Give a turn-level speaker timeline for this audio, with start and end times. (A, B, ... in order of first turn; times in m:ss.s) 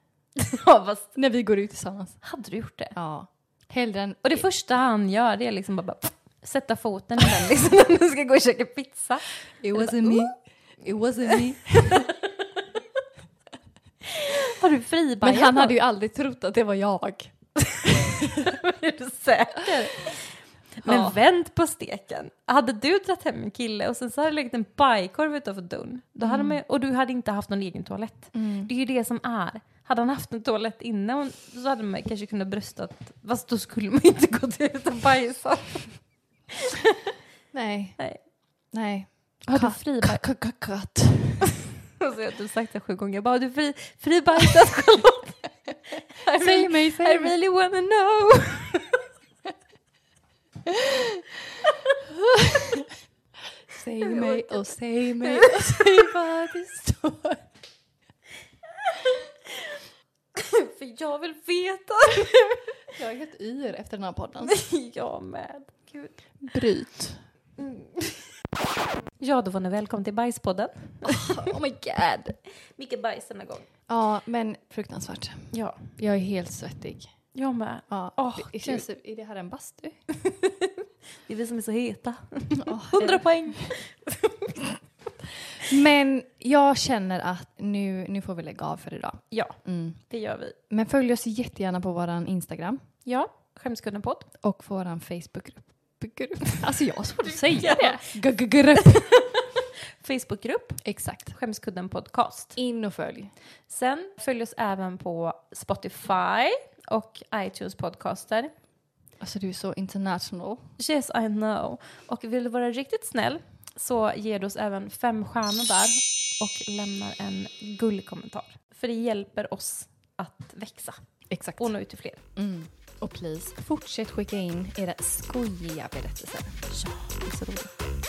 0:00.4-0:01.2 A
0:01.1-0:02.2 B
0:02.2-0:03.0 A
0:02.9-0:04.4 B
0:04.2-0:10.3 A
0:09.6-0:12.1 B
0:11.9-0:12.3 A
0:14.1-0:15.8 A
0:15.2-0:17.3 B
0:17.7-0:36.2 A
0:20.8-0:21.2 B
0:26.2-0:26.6 B
0:28.3-0:28.7 B
0:37.5-0:41.5 B
0:38.0-0:38.2 A
0:39.5-0:40.2 A
0:42.0-0:45.6 A
0:46.1-0:49.0 A
0:46.3-0:47.3 B
0:53.7-0:57.4 B
0:54.0-0:56.0 A
0:59.0-0:59.8 A
1:00.3-1:02.7 A
1:02.9-1:04.6 B
1:04.4-1:06.6 A
1:06.4-1:07.2 B
1:07.6-1:08.2 A
1:09.2-1:11.5 A
1:11.0-1:12.4 B
1:12.6-1:13.7 A
1:13.9-1:17.1 B
1:15.5-1:15.9 A
1:17.3-1:18.8 A
1:17.9-1:20.0 B
1:20.2-1:20.7 A
1:21.2-1:24.6 A
1:22.6-1:23.2 B
1:25.6-1:30.0 B
1:29.3-1:30.6 A
1:30.7-1:32.8 B
1:33.0-1:34.3 A
1:34.4-1:39.1 B
1:37.2-1:38.1 A
1:38.8-1:42.6 A
1:40.8-1:41.3 B
1:42.6-1:43.3 B
1:43.7-1:48.5 A
1:49.2-1:50.6 B
1:50.8-2:02.2 A
2:01.3-2:06.7 B
2:06.7-2:07.7 A